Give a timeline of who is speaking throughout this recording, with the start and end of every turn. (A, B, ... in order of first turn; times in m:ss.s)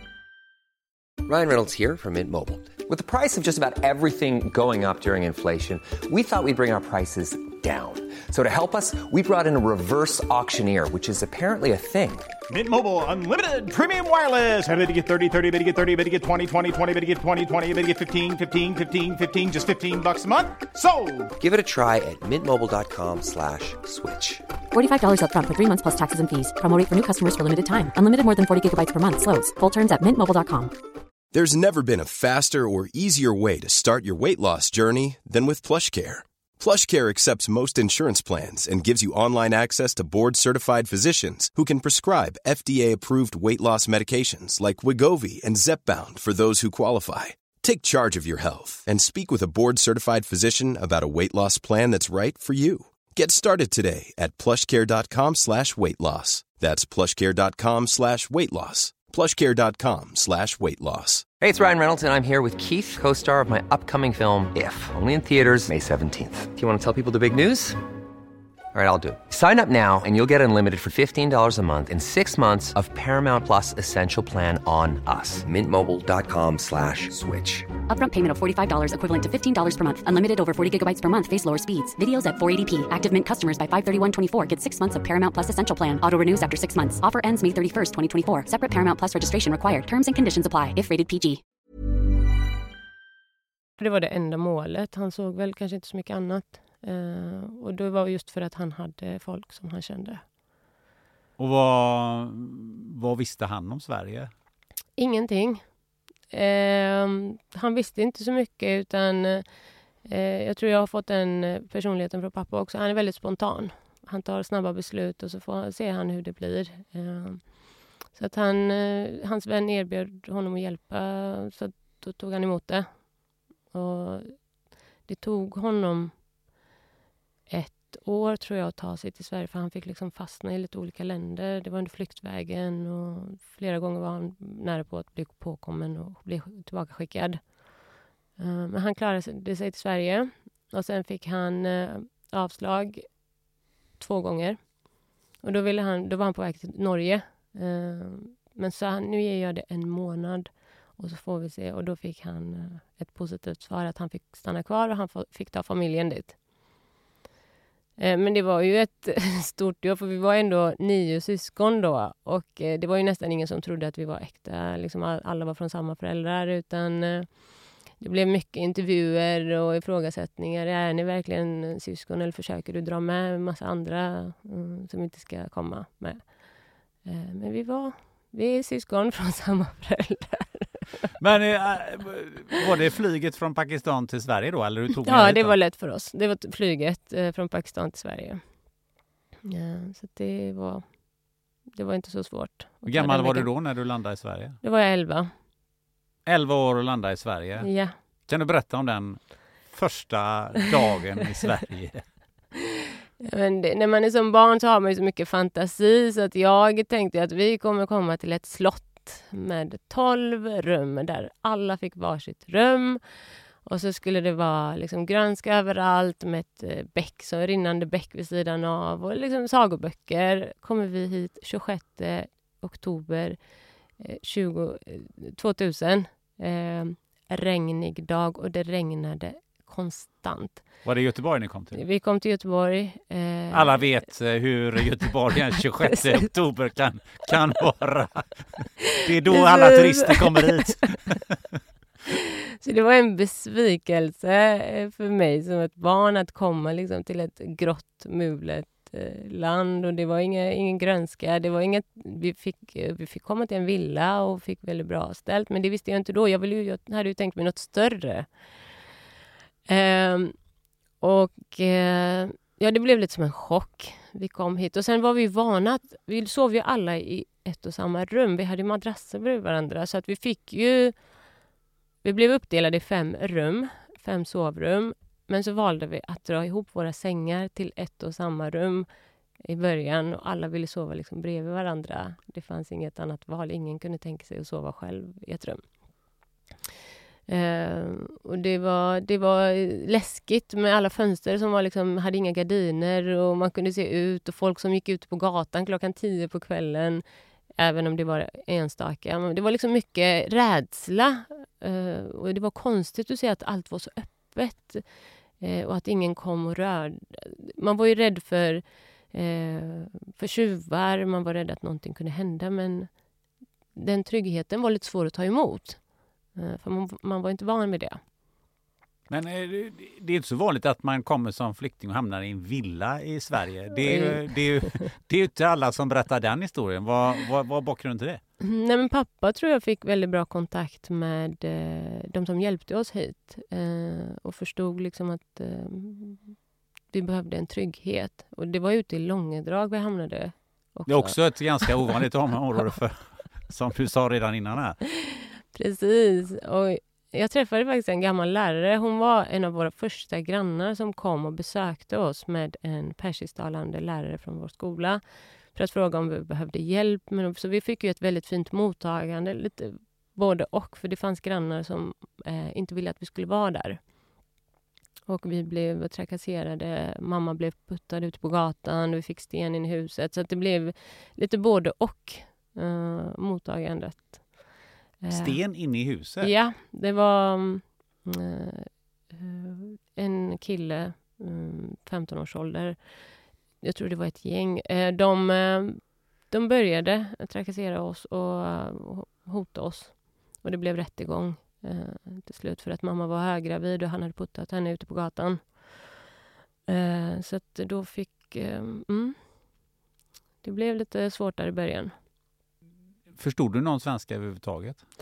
0:01.2-0:12.3 A
0:12.5-0:21.3 B
0:21.4-0:24.4 A
0:24.7-0:30.7 C
0:31.3-1:01.2 D
1:01.4-1:07.8 A
1:08.7-1:17.7 A
1:17.9-1:31.4 C
1:33.8-1:40.2 E
1:41.4-1:44.3 F
1:45.0-1:45.6 E
1:46.3-1:49.4 E
1:50.0-2:03.1 E
2:03.7-2:04.4 E
2:05.0-2:06.1 E
2:07.5-2:17.6 E
2:18.4-2:23.1 E
2:24.0-2:24.8 E
2:25.4-2:36.4 E
2:38.0-2:56.3 E
2:57.0-3:01.1 E
3:01.2-3:05.6 F
3:05.0-3:08.4 E
3:09.4-3:11.0 E
3:11.7-3:13.5 E
3:12.9-3:14.6 F
3:14.6-3:15.3 E
3:16.2-3:17.7 F
3:17.6-3:17.9 E
3:18.3-3:22.0 F
3:23.2-3:33.0 E
3:33.6-3:43.4 E
3:44.0-3:50.6 E
3:50.8-3:51.8 F
3:51.7-3:53.8 E
3:53.5-4:01.4 F
3:59.0-4:00.7 E
4:02.6-4:18.3 E
4:19.7-4:20.3 E
4:21.0-4:30.9 E
4:32.0-4:38.9 E
4:39.4-4:45.6 E
4:47.3-4:57.0 E
4:57.6-5:04.8 E
5:05.4-5:12.9 E
5:13.8-5:15.8 E
5:16.3-5:18.0 E
5:19.1-5:28.2 F
5:23.8-5:24.8 E
5:28.4-5:36.3 E
5:36.9-5:41.7 E
5:40.9-5:44.8 F
5:45.5-5:55.0 E
5:55.5-6:03.8 E
6:05.1-6:14.4 E
6:15.0-6:15.5 E
6:15.1-6:16.3 F
6:16.2-6:22.8 E
6:23.6-6:35.8 E
6:36.7-6:39.2 E
6:40.4-6:41.9 E
6:43.2-6:44.8 F